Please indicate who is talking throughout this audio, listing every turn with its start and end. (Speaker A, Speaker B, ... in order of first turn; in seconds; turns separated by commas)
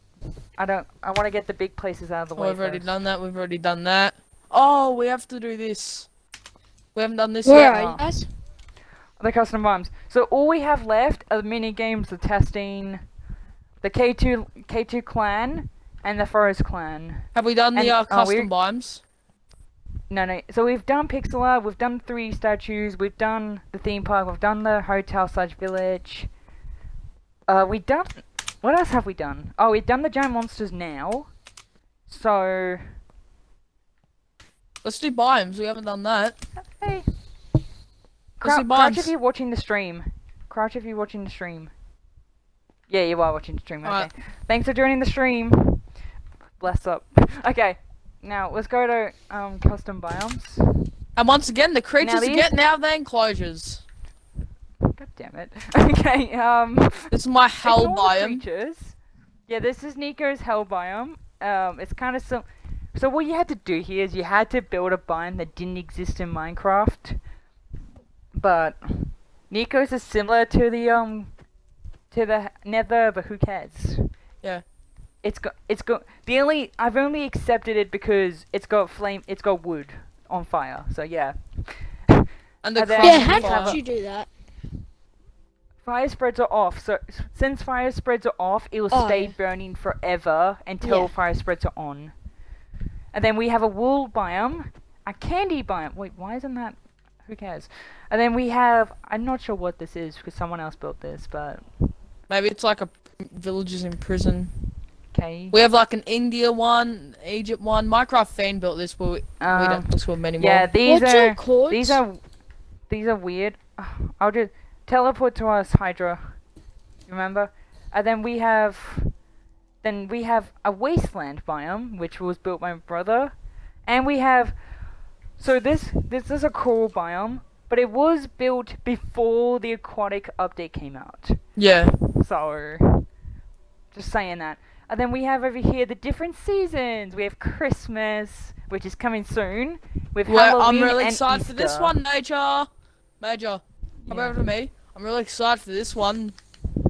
Speaker A: 0.6-3.0, Speaker B: 2.4-6.1, Speaker B: 6.9-7.8, Speaker C: 7.5-8.2, Speaker A: 7.6-8.1, Speaker A: 9.2-13.0, Speaker A: 13.8-18.5, Speaker B: 17.3-19.0, Speaker A: 20.1-26.3, Speaker A: 27.5-31.3, Speaker A: 32.1-32.9, Speaker B: 34.8-36.4, Speaker A: 36.7-37.0, Speaker A: 38.4-41.7, Speaker B: 38.4-39.1, Speaker A: 42.9-45.8, Speaker B: 43.8-44.1, Speaker A: 46.6-50.8, Speaker B: 51.1-53.8, Speaker A: 52.0-52.5, Speaker A: 54.9-59.0, Speaker B: 57.1-58.4, Speaker A: 59.5-67.2, Speaker A: 68.3-71.3, Speaker A: 72.1-74.1, Speaker A: 75.2-83.8, Speaker B: 82.6-83.8, Speaker C: 83.0-84.3, Speaker A: 85.8-92.1, Speaker C: 88.9-89.3, Speaker C: 90.8-91.1, Speaker A: 93.1-101.9, Speaker B: 102.3-104.5, Speaker A: 105.1-105.6, Speaker B: 105.5-110.7, Speaker A: 109.4-112.2, Speaker C: 110.8-112.0, Speaker A: 112.9-116.3, Speaker A: 117.1-119.1, Speaker A: 119.8-123.3, Speaker A: 123.8-124.6, Speaker A: 125.4-131.4, Speaker B: 131.6-131.9, Speaker A: 132.0-133.1, Speaker A: 133.9-141.9, Speaker B: 140.3-142.7, Speaker B: 143.2-146.3, Speaker A: 144.0-144.4